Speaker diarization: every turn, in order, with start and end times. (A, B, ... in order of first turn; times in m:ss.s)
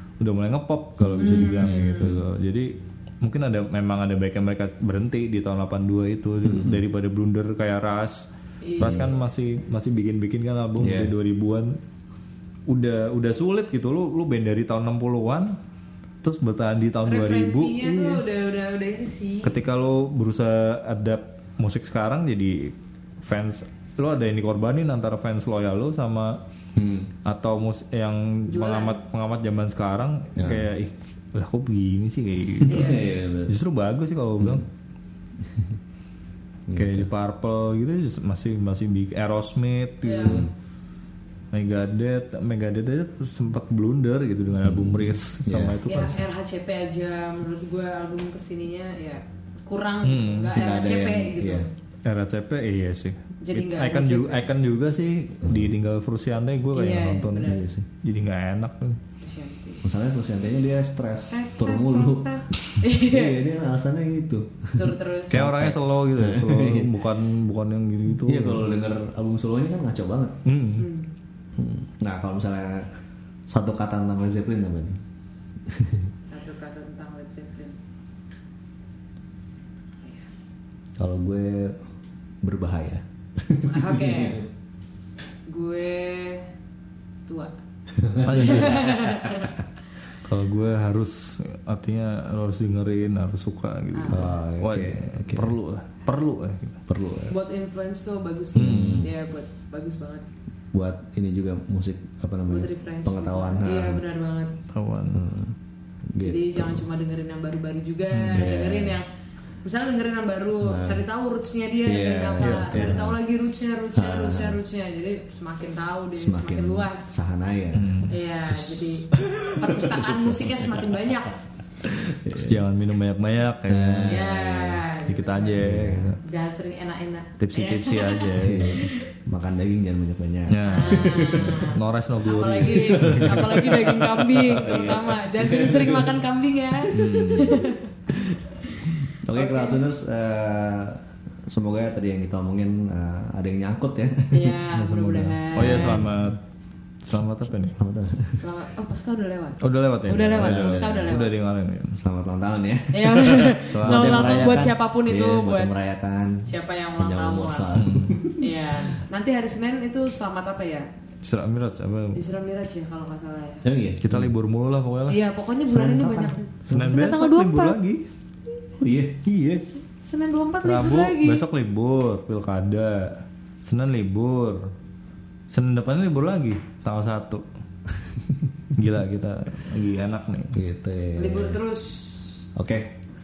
0:00.2-0:08.3 A
0:01.0-0:02.2 B
0:01.2-0:02.1 C
0:06.4-0:06.8 B
0:08.6-0:09.2 C
0:08.8-0:11.8 A
0:08.8-0:09.1 B
0:10.8-0:11.1 B
0:12.7-0:15.6 A
0:16.2-0:18.2 A
0:17.0-0:19.6 C
0:19.4-0:26.4 A
0:26.7-0:27.1 B
0:27.2-0:34.6 A
0:28.5-0:29.0 C
0:30.4-0:30.7 B
0:32.6-0:33.5 B
0:32.7-0:33.0 C
0:34.4-0:34.6 B
0:35.4-0:35.7 B
0:36.7-0:37.1 B
0:36.7-0:40.5 A
0:40.0-0:40.4 C
0:40.2-0:40.5 B
0:41.5-0:46.2 A
0:44.6-0:45.8 B
0:45.8-0:51.7 C
0:50.0-0:50.6 A
0:50.5-0:51.7 B
0:52.0-0:59.0 A
0:53.4-0:54.4 C
0:55.4-0:55.7 B
0:56.7-0:57.6 C
0:57.4-0:57.9 B
0:59.2-0:59.8 C
0:59.8-1:06.9 B
1:01.3-1:03.4 C
1:04.7-1:05.4 C
1:05.3-1:08.6 A
1:08.2-1:10.4 B
1:10.4-1:10.9 A
1:10.8-1:11.1 C
1:11.6-1:12.9 B
1:13.5-1:15.0 B
1:15.7-1:16.1 B
1:16.3-1:17.8 C
1:21.0-1:21.8 B
1:22.4-1:24.4 B
1:23.6-1:24.4 C
1:25.5-1:26.5 C
1:27.2-1:27.5 C
1:28.0-1:29.5 B
1:28.2-1:28.8 A
1:28.3-1:29.6 C
1:30.2-1:36.8 A
1:33.9-1:34.3 C
1:34.1-1:35.5 B
1:36.9-1:37.3 B
1:37.3-1:40.2 C
1:38.5-1:39.1 B
1:38.6-1:39.1 A
1:40.7-1:44.0 B
1:42.5-1:44.5 C
1:44.7-1:45.2 A
1:45.1-1:45.6 B
1:46.1-1:46.8 B
1:46.2-1:49.1 C
1:48.1-1:48.5 A
1:48.3-1:49.0 B
1:49.6-1:57.2 C
1:50.6-1:51.0 B
1:51.8-1:53.2 B
1:52.4-1:53.0 A
1:53.9-1:54.6 B
1:56.1-2:00.9 B
1:57.7-1:58.1 A
1:58.1-2:01.4 C
2:01.8-2:02.6 B
2:02.3-2:04.3 A
2:03.7-2:04.8 B
2:04.1-2:05.7 C
2:05.0-2:06.2 A
2:05.6-2:06.2 B
2:06.2-2:09.0 C
2:07.4-2:08.8 A
2:08.4-2:11.6 B
2:10.5-2:13.8 A
2:10.7-2:17.9 C
2:12.8-2:16.2 B
2:16.9-2:17.6 A
2:18.7-2:19.8 C
2:19.0-2:26.3 B
2:24.3-2:26.0 C
2:24.9-2:26.4 A
2:27.0-2:27.8 A
2:27.7-2:28.4 B
2:28.3-2:31.3 C
2:29.6-2:32.0 A
2:30.4-2:31.2 B
2:32.0-2:36.5 B
2:32.9-2:35.7 C
2:33.7-2:34.4 A
2:36.4-2:37.7 C
2:37.0-2:39.0 B
2:37.7-2:38.2 A
2:38.4-2:40.9 C
2:41.2-2:42.2 A
2:42.1-2:43.7 C
2:43.6-2:44.3 B
2:44.0-2:45.2 A
2:45.1-2:47.8 C
2:45.7-2:46.9 B
2:46.7-2:48.0 A
2:48.8-2:49.2 B
2:49.2-2:49.8 A
2:49.7-2:51.4 C
2:50.6-2:54.6 A
2:55.5-2:57.4 A
2:58.7-3:00.6 A
3:00.5-3:01.6 B
3:01.2-3:02.4 C
3:02.5-3:02.9 B